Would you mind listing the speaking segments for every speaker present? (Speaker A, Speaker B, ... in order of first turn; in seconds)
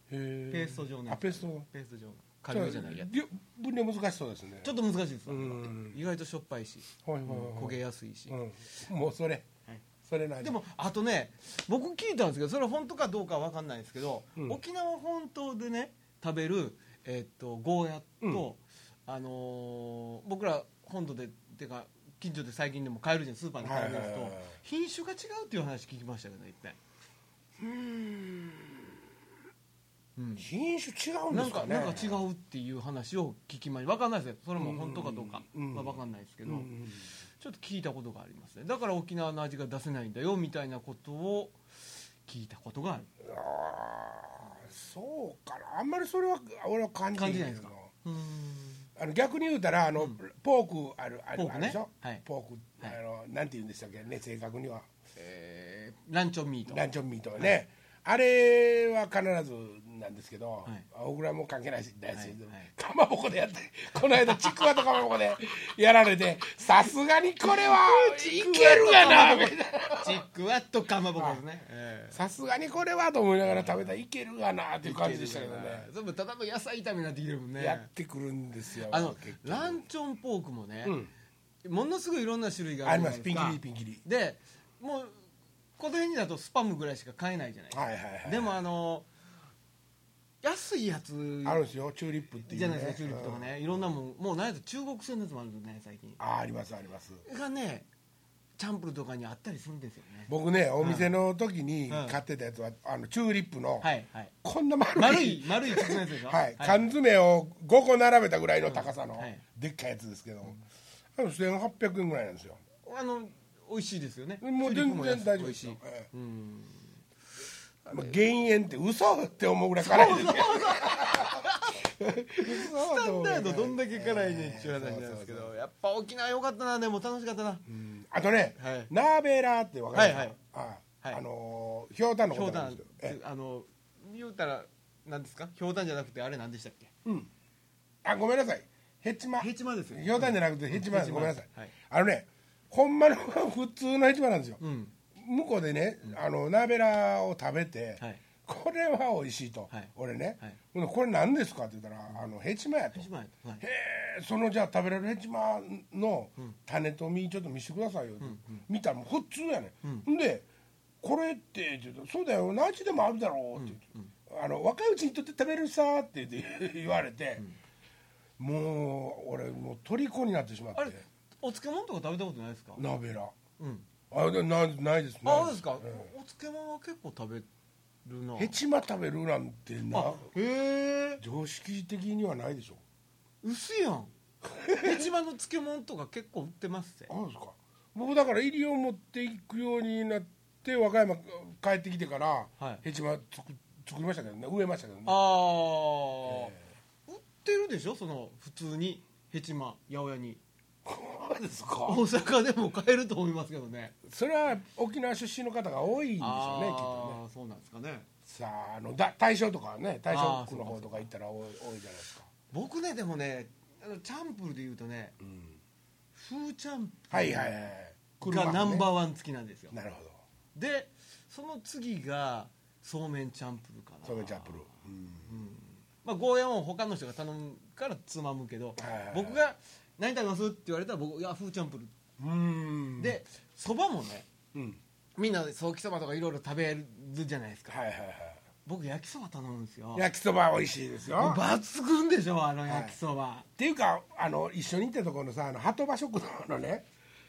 Speaker A: 0.1-1.7, 2.5-4.7, 5.3-6.0, 7.0-9.5, 10.0-10.6, 23.6-24.6, 27.6-28.9, 30.4-32.2, 34.6-37.1, 43.2-47.9, 49.0-54.8, 56.7-70.2, 72.1-75.9, 77.6-79.8, 80.8-81.1, 82.8-84.0, 87.7-88.6, 91.4-93.5, 96.2-97.2, 100.3-103.9, 104.4-110.6, 111.2-112.6, 114.4-116.1, 117.9-125.5, 127.7-133.2, 138.0-144.6, 145.2-153.1, 153.6-160.5, 161.0-167.4, 168.4-171.0, 172.8-173.3, 174.1-176.1, 178.4-180.3, 181.2-182.8, 184.6-185.0, 187.1-195.2, 196.3-196.6, 200.8-202.0, 204.0-207.2, 208.2-212.3, 215.2-215.6, 217.1-218.9, 219.7-220.2, 224.0-225.4, 228.8-229.4, 232.2-233.2, 237.7-238.4, 239.9-241.4, 242.7-242.9, 243.6-246.8
Speaker B: 0.5-3.1, 4.6-8.3, 10.4-26.8, 30.1-30.4, 31.3-36.7, 37.4-41.6, 42.2-43.1, 47.1-48.8, 51.4-52.2, 55.1-56.8, 62.1-62.7, 67.4-72.2, 73.5-73.9, 74.8-77.9, 78.8-81.0, 81.6-85.1, 85.8-89.1, 90.4-91.6, 92.5-96.2, 97.2-97.9, 98.6-101.1, 101.9-102.2, 103.8-104.3, 105.0-106.8, 108.7-109.4, 112.8-116.8, 117.9-118.1, 119.8-121.8, 122.4-127.6, 128.6-128.9, 129.9-130.3, 132.3-136.9, 139.4-141.7, 144.6-144.9, 152.9-153.6, 158.2-158.6, 163.6-164.1, 170.8-172.8, 173.6-173.9, 175.2-177.5, 178.0-178.6, 179.9-181.2, 183.4-184.1, 184.8-187.1, 192.6-192.8, 195.1-196.5, 197.1-200.4, 201.8-203.9, 206.2-208.1, 210.1-211.1, 212.5-215.2, 216.1-217.6, 218.2-219.7, 220.5-224.6, 225.2-231.9, 233.0-234.3, 235.2-237.8, 238.6-240.1, 241.1-243.5